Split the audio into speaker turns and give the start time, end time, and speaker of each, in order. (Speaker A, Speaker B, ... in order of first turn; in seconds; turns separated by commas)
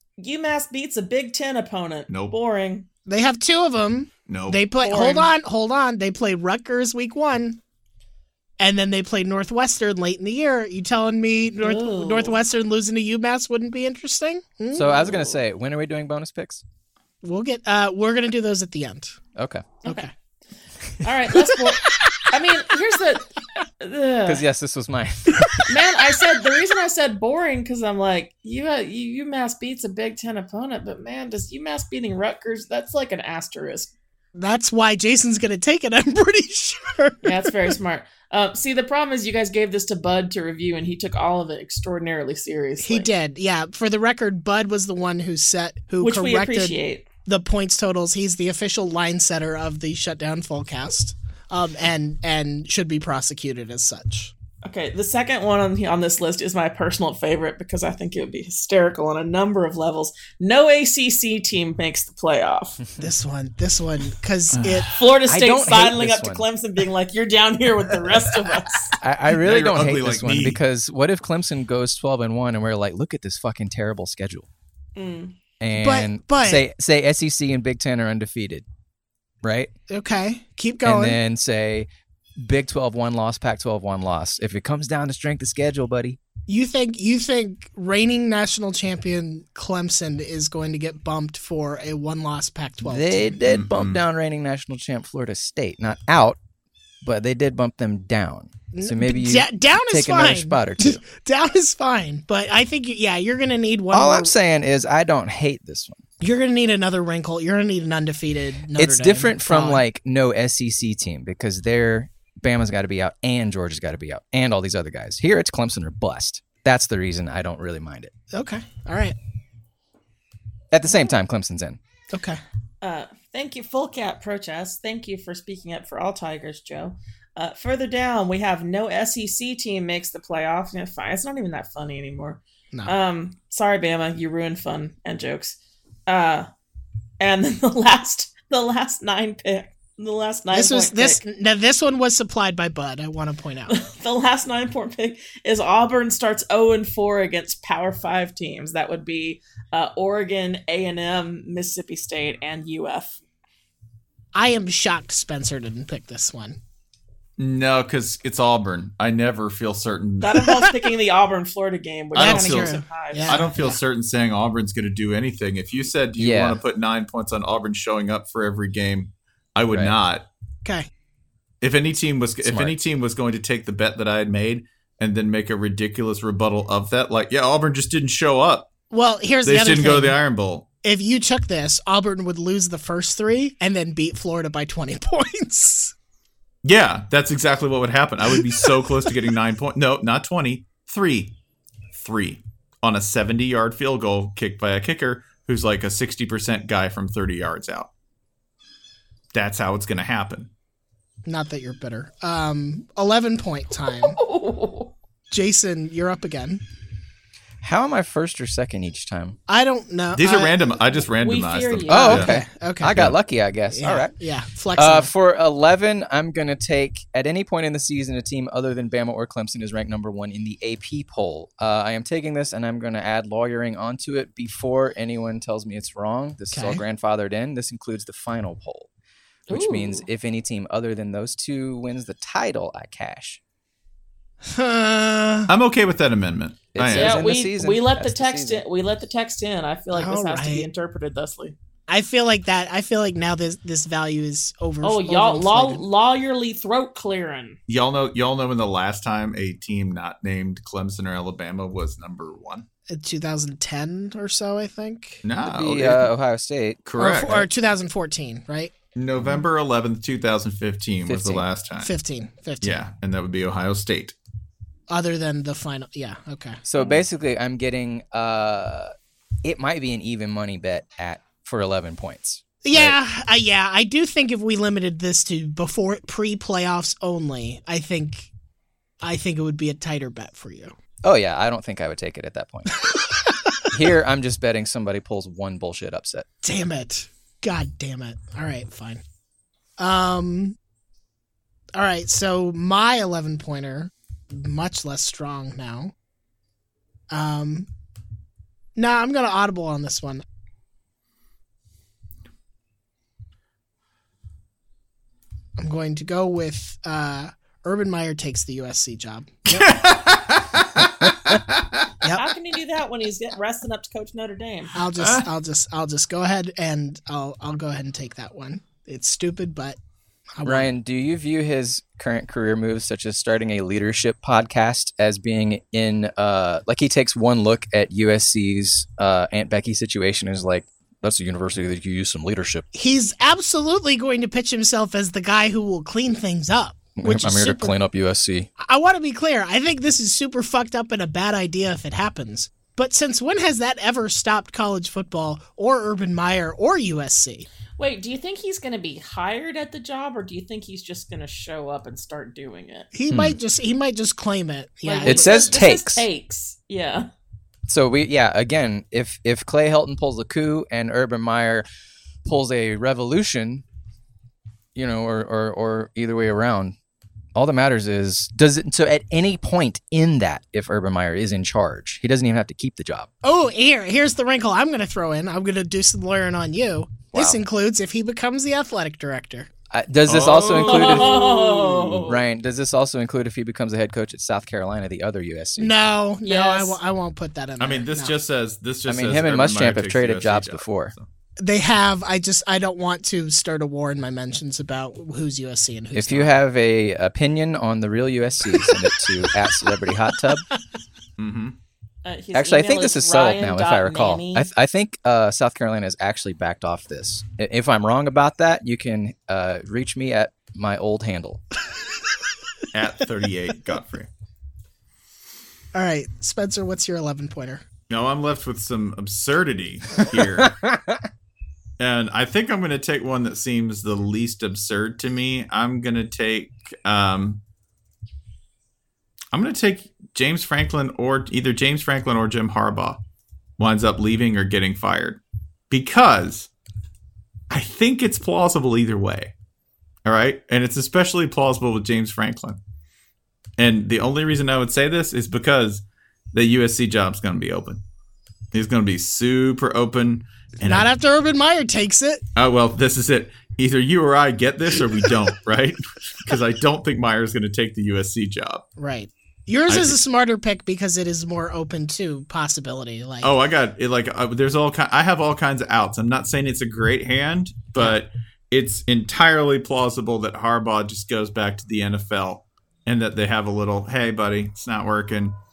Speaker A: 0.2-2.9, Speaker B: 2.1-2.3, Speaker C: 3.1-7.6, Speaker B: 4.3-4.6, Speaker A: 4.8-5.3, Speaker C: 8.6-15.0, Speaker A: 11.6-12.4, Speaker D: 14.7-16.6, Speaker A: 14.9-15.3, Speaker C: 17.2-19.2, Speaker D: 19.4-19.7, Speaker A: 21.0-24.4, Speaker D: 24.2-25.7, Speaker A: 25.7-33.9, Speaker C: 34.4-37.7, Speaker A: 37.2-43.1, Speaker C: 42.8-54.3, Speaker A: 46.0-47.0, Speaker A: 54.6-62.8, Speaker C: 63.0-64.9, Speaker B: 64.5-65.0, Speaker A: 64.9-69.0, Speaker D: 65.3-66.5, Speaker D: 69.0-74.5, Speaker B: 69.3-70.6, Speaker A: 75.0-75.3, Speaker D: 75.6-78.6, Speaker C: 75.7-76.6, Speaker D: 79.4-79.7, Speaker C: 79.9-81.2, Speaker D: 80.8-86.2, Speaker C: 86.5-93.4, Speaker D: 92.8-96.4, Speaker B: 93.4-94.0, Speaker D: 97.0-101.0, Speaker C: 98.7-104.3, Speaker D: 103.9-106.0, Speaker C: 106.2-109.8, Speaker D: 108.7-118.1, Speaker C: 118.3-119.2, Speaker D: 120.7-121.8, Speaker C: 122.1-122.4, Speaker A: 122.8-136.5, Speaker A: 137.2-141.2, Speaker C: 140.5-143.8, Speaker A: 143.7-153.2, Speaker C: 154.3-156.6, Speaker B: 157.4-160.4, Speaker A: 160.2-163.4, Speaker B: 162.1-170.3, Speaker C: 162.2-163.8, Speaker D: 166.2-166.6, Speaker B: 171.6-178.7, Speaker D: 172.4-172.8, Speaker C: 178.9-180.2, Speaker B: 179.4-180.6, Speaker C: 180.8-185.9, Speaker B: 186.6-191.3, Speaker C: 188.3-189.1, Speaker B: 191.9-197.9, Speaker B: 199.3-200.5, Speaker C: 201.2-204.2, Speaker A: 204.0-204.9, Speaker C: 205.3-206.6, Speaker D: 207.6-209.4, Speaker C: 209.5-210.6, Speaker B: 210.1-212.3, Speaker A: 211.2-212.3, Speaker D: 211.9-214.1, Speaker C: 211.9-213.1, Speaker C: 213.7-215.1, Speaker D: 214.7-228.9, Speaker C: 226.5-226.8, Speaker A: 229.5-230.0, Speaker D: 229.5-233.4, Speaker C: 234.4-235.5, Speaker B: 235.5-237.2, Speaker D: 236.7-238.6, Speaker A: 236.9-241.5, Speaker C: 239.9-240.7, Speaker C: 241.9-245.8, Speaker A: 244.8-247.6, Speaker B: 247.7-252.7, Speaker C: 252.9-255.2, Speaker B: 255.2-256.1, Speaker D: 255.4-256.8, Speaker B: 256.8-257.5, Speaker C: 257.0-258.7, Speaker B: 258.9-261.9, Speaker D: 261.1-261.4, Speaker C: 261.8-262.8, Speaker B: 262.6-264.1, Speaker C: 264.9-266.6, Speaker D: 266.6-268.9, Speaker D: 269.4-273.0, Speaker C: 272.6-278.3, Speaker C: 279.0-280.7, Speaker D: 281.0-282.9, Speaker D: 283.7-286.2, Speaker C: 286.4-289.0, Speaker C: 289.8-290.6, Speaker C: 291.7-295.9, Speaker C: 297.1-297.7, Speaker C: 298.8-300.2, Speaker C: 305.6-309.7, Speaker B: 309.5-311.8, Speaker A: 312.1-314.7, Speaker C: 314.7-319.8, Speaker B: 315.0-315.3, Speaker C: 320.3-320.7, Speaker D: 320.4-332.6, Speaker C: 332.7-337.7, Speaker D: 337.0-338.5, Speaker C: 338.6-347.5, Speaker A: 347.8-352.9, Speaker C: 352.9-355.5, Speaker D: 353.1-353.4, Speaker A: 354.8-357.1, Speaker D: 355.0-356.1, Speaker D: 357.7-361.7, Speaker D: 362.2-363.6, Speaker D: 364.7-366.8, Speaker D: 367.3-373.1, Speaker C: 373.2-379.5, Speaker D: 377.1-377.4, Speaker D: 379.7-381.4, Speaker B: 380.1-382.1, Speaker A: 380.5-382.2, Speaker D: 382.0-385.7, Speaker C: 385.6-388.1, Speaker A: 386.2-386.8, Speaker B: 387.6-391.1, Speaker D: 388.9-390.9, Speaker C: 391.4-396.3, Speaker D: 395.9-400.4, Speaker B: 401.2-401.6, Speaker A: 402.0-404.5, Speaker D: 402.3-411.4, Speaker B: 412.7-414.1, Speaker C: 415.7-417.6, Speaker B: 417.9-420.5, Speaker D: 420.5-421.0, Speaker B: 421.8-427.4, Speaker B: 429.3-433.0, Speaker B: 433.6-436.5, Speaker B: 437.5-439.3, Speaker B: 440.0-442.6, Speaker B: 443.6-447.8, Speaker B: 448.5-450.9, Speaker C: 450.6-452.2, Speaker B: 452.4-458.6, Speaker C: 458.8-463.3, Speaker B: 459.7-460.0, Speaker B: 463.2-475.4